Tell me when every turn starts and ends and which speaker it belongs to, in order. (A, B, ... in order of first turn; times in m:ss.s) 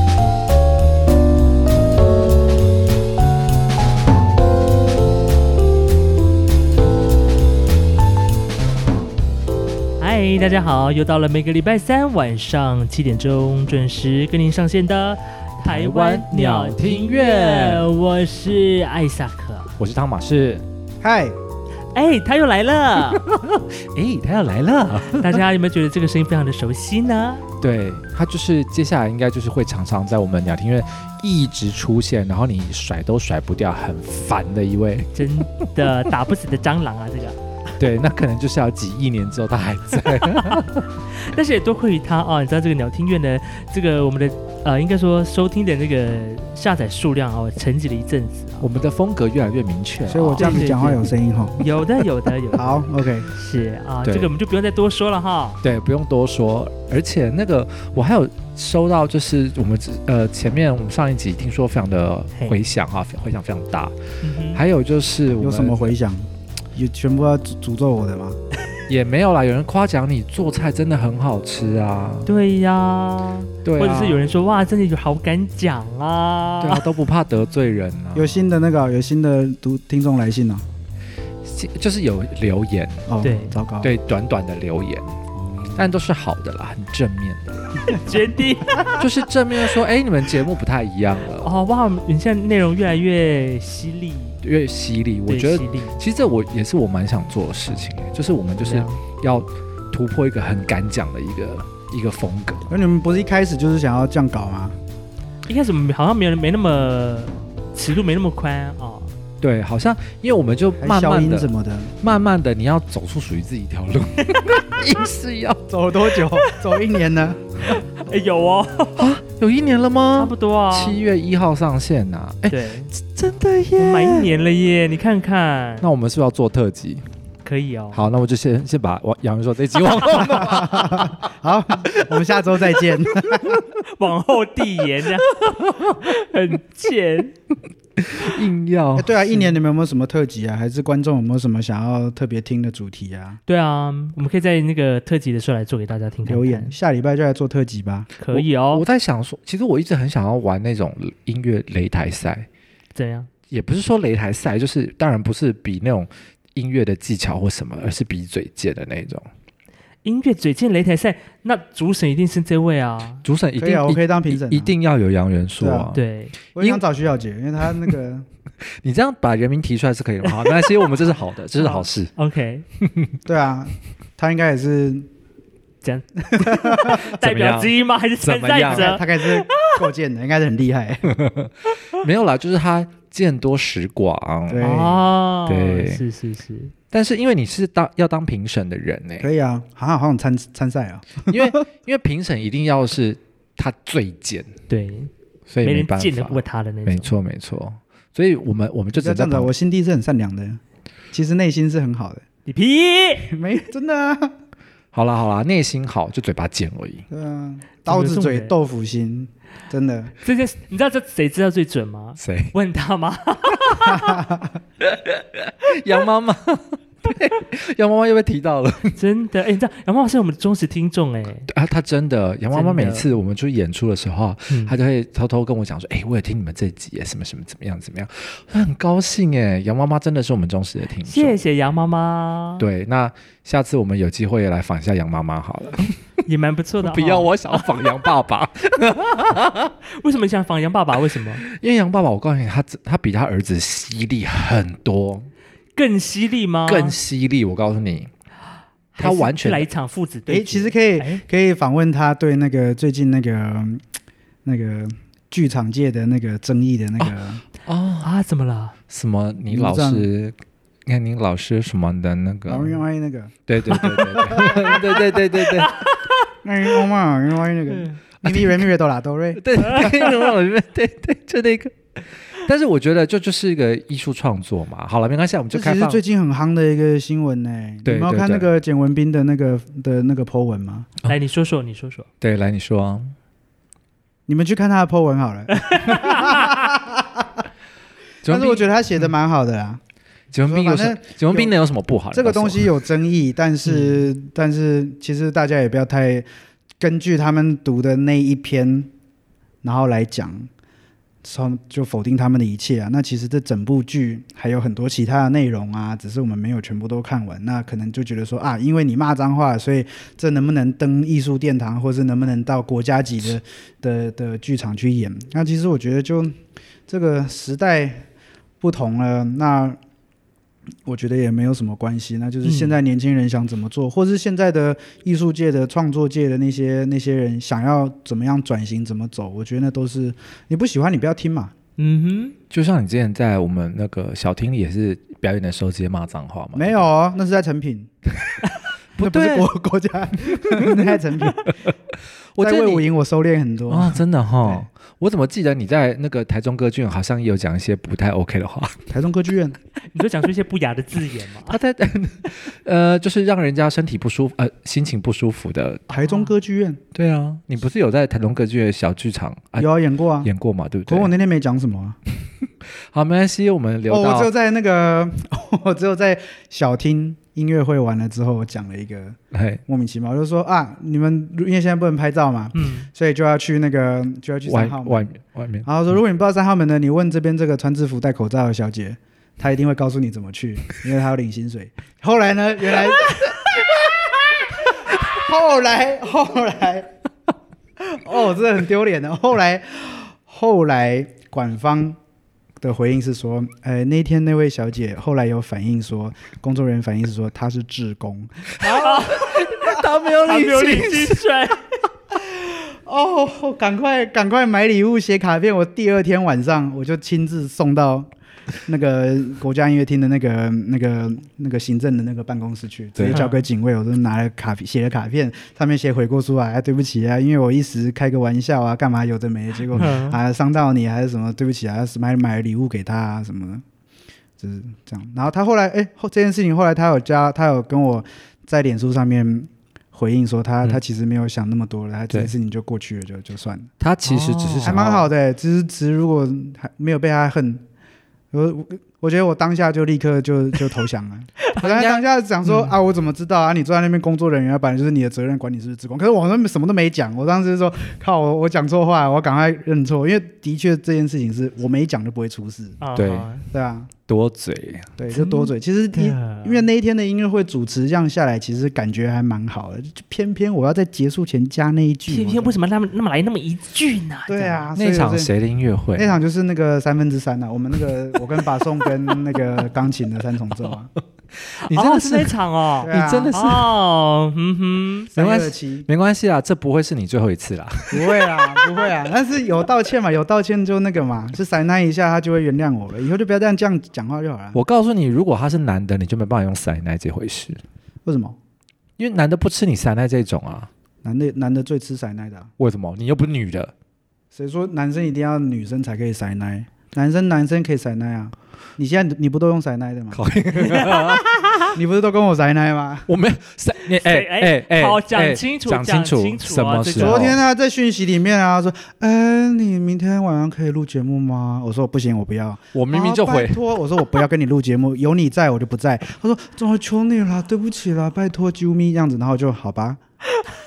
0:10.0-0:19.8 A
0:15.7-0:17.9 B
0:19.8-0:20.6 B
0:21.0-0:21.4 C
0:21.9-0:23.2 A
0:23.1-0:25.4 B
0:25.1-0:27.4 A
0:27.6-0:35.3 B
0:35.1-0:37.4 A
0:37.8-0:40.8 B
0:40.2-0:48.7 A
0:48.6-0:50.7 B
0:50.0-0:51.6 C
0:50.4-0:55.6 A
0:52.5-0:53.3 C
0:54.0-0:54.3 B
0:55.6-1:03.9 B
1:04.2-1:04.6 A
1:04.5-1:05.9 B
1:05.4-1:08.4 C
1:08.9-1:12.3 B
1:12.2-1:16.9 A
1:13.6-1:14.2 B
1:16.6-1:18.5 B
1:18.1-1:20.6 C
1:21.4-1:23.1 B
1:23.1-1:23.9 C
1:23.2-1:23.6 A
1:23.8-1:25.1 B
1:25.3-1:25.9 C
1:25.8-1:27.9 B
1:27.8-1:28.9 A
1:28.9-1:31.5 B
1:31.4-1:34.4 A
1:34.4-1:42.7 B
1:35.3-1:36.0 A
1:38.6-1:39.0 A
1:42.7-1:44.8 C
1:45.5-1:49.2 A
1:49.4-1:51.5 B
1:50.8-1:51.9 C
1:52.0-1:55.6 B
1:55.7-1:57.7 C
1:57.7-1:59.0 A
1:59.0-2:04.3 B
2:00.2-2:01.0 A
2:02.5-2:02.9 A
2:03.8-2:05.9 A
2:05.8-2:07.1 B
2:07.4-2:08.0 A
2:07.9-2:11.3 B
2:10.2-2:13.6 C
2:13.7-2:17.4 A
2:18.0-2:19.1 B
2:19.0-2:23.4 C
2:23.5-2:26.7 A
2:26.2-2:28.1 C
2:28.2-2:28.8 A
2:28.3-2:32.5 B
2:32.9-2:33.3 A
2:33.5-2:39.3 B
2:40.0-2:43.2 A
2:43.2-2:46.0 B
2:43.6-2:44.7 C
2:45.6-2:45.9 C
2:45.9-2:46.3 A
2:46.5-2:48.3 C
2:48.8-2:52.1 B
2:50.2-2:50.9 A
2:51.6-2:52.6 A
2:52.8-2:53.1 B
2:53.2-2:55.1 C
2:55.8-2:59.8 A
2:56.3-2:57.0 C
2:57.0-2:59.0 B
2:58.7-3:01.2 C
3:01.1-3:04.7 B
3:04.5-3:05.0 C
3:04.6-3:06.7 A
3:05.5-3:06.0 B
3:06.9-3:09.3 B
3:09.2-3:11.6 C
3:11.3-3:14.5 B
3:14.7-3:15.1 A
3:15.5-3:19.5 B
3:15.6-3:17.1 A
3:18.9-3:20.6 C
3:21.1-3:22.2 C
3:22.5-3:23.4 A
3:23.2-3:24.3 C
3:24.9-3:27.0 B
3:27.1-3:30.1 C
3:27.8-3:28.5 A
3:30.2-3:34.3 A
3:32.2-3:32.5 B
3:34.0-3:34.4 C
3:34.8-3:39.0 B
3:38.9-3:41.5 A
3:41.5-3:51.4 B
3:42.5-3:43.1 A
3:44.5-3:44.8 A
3:51.0-3:52.6 A
3:52.6-3:56.0 B
3:56.2-3:57.7 A
3:56.8-3:59.7 B
3:59.8-4:01.4 A
4:01.4-4:05.3 B
4:05.8-4:06.9 A
4:06.7-4:08.1 B
4:08.9-4:11.2 A
4:09.0-4:09.7 B
4:10.3-4:13.8 C
4:14.4-4:17.4 C
4:17.0-4:18.1 B
4:18.0-4:18.7 A
4:18.9-4:20.3 B
4:19.5-4:20.1 C
4:20.8-4:22.8 B
4:22.5-4:25.2 C
4:23.5-4:25.8 B
4:25.4-4:26.3 A
4:26.4-4:30.1 C
4:27.7-4:28.0 A
4:28.2-4:28.6 B
4:29.4-4:36.0 B
4:29.7-4:30.1 A
4:35.5-4:40.9 C
4:37.8-4:38.5 B
4:41.0-4:42.1 A
4:42.2-4:43.1 B
4:44.3-4:47.4 C
4:45.6-4:46.6 A
4:48.2-4:48.7 B
4:48.2-4:49.8 C
4:50.3-4:52.7 B
4:50.4-4:51.5 C
4:52.1-4:56.2 C
4:56.8-4:58.9 C
4:59.6-5:00.5 C
5:01.2-5:16.4 C
5:16.9-5:18.0 C
5:18.6-5:19.8 C
5:20.8-5:31.5 C
5:22.4-5:22.8 A
5:31.8-5:32.3 A
5:32.5-5:36.8 B
5:36.5-5:37.9 C
5:39.0-5:41.6 C
5:39.0-5:39.5 B
5:40.4-5:41.0 B
5:42.4-5:42.9 B
5:42.4-5:44.6 C
5:43.7-5:48.8 B
5:48.9-5:49.6 C
5:49.9-5:51.6 A
5:51.5-5:55.9 B
5:55.9-5:56.3 A
5:55.9-5:56.8 C
5:56.9-5:59.7 B
5:59.6-6:00.3 C
6:00.2-6:01.1 B
6:00.8-6:02.0 C
6:02.9-6:04.3 B
6:03.9-6:15.0 C
6:09.3-6:09.6 B
6:12.5-6:12.9 A
6:14.4-6:15.7 B
6:15.6-6:26.9 C
6:27.8-6:32.0 C
6:32.6-6:39.2 C
6:38.6-6:41.6 A
6:39.1-6:41.2 B
6:42.1-6:48.1 C
6:48.6-7:03.6 C
6:53.0-6:53.2 B
6:53.1-6:53.4 A
6:59.7-7:00.2 A
7:04.4-7:13.7 C
7:13.8-7:15.0 B
7:14.0-7:14.8 A
7:14.6-7:17.6 C
7:18.3-7:32.8 C
7:21.6-7:22.0 B
7:22.4-7:22.7 A
7:32.8-7:33.4 A
7:33.0-7:33.3 B
7:33.5-7:33.9 C
7:34.1-7:34.9 B
7:35.0-7:42.6 C
7:35.1-7:36.6 A
7:42.1-7:44.7 A
7:44.3-7:45.3 C
7:44.8-7:46.2 B
7:45.9-7:50.9 C
7:51.6-7:55.1 A
7:51.6-7:53.8 B
7:52.8-7:53.3 C
7:55.1-7:55.9 C
7:55.2-7:58.9 B
7:57.9-8:04.6 C
8:04.5-8:07.6 B
8:08.0-8:08.4 C
8:09.0-8:10.7 B
8:11.0-8:12.5 C
8:12.6-8:13.7 B
8:14.3-8:20.2 C
8:20.1-8:21.7 B
8:20.8-8:21.1 A
8:21.7-8:23.1 C
8:23.1-8:27.4 B
8:24.0-8:27.3 A
8:27.0-8:40.0 C
8:32.7-8:33.6 B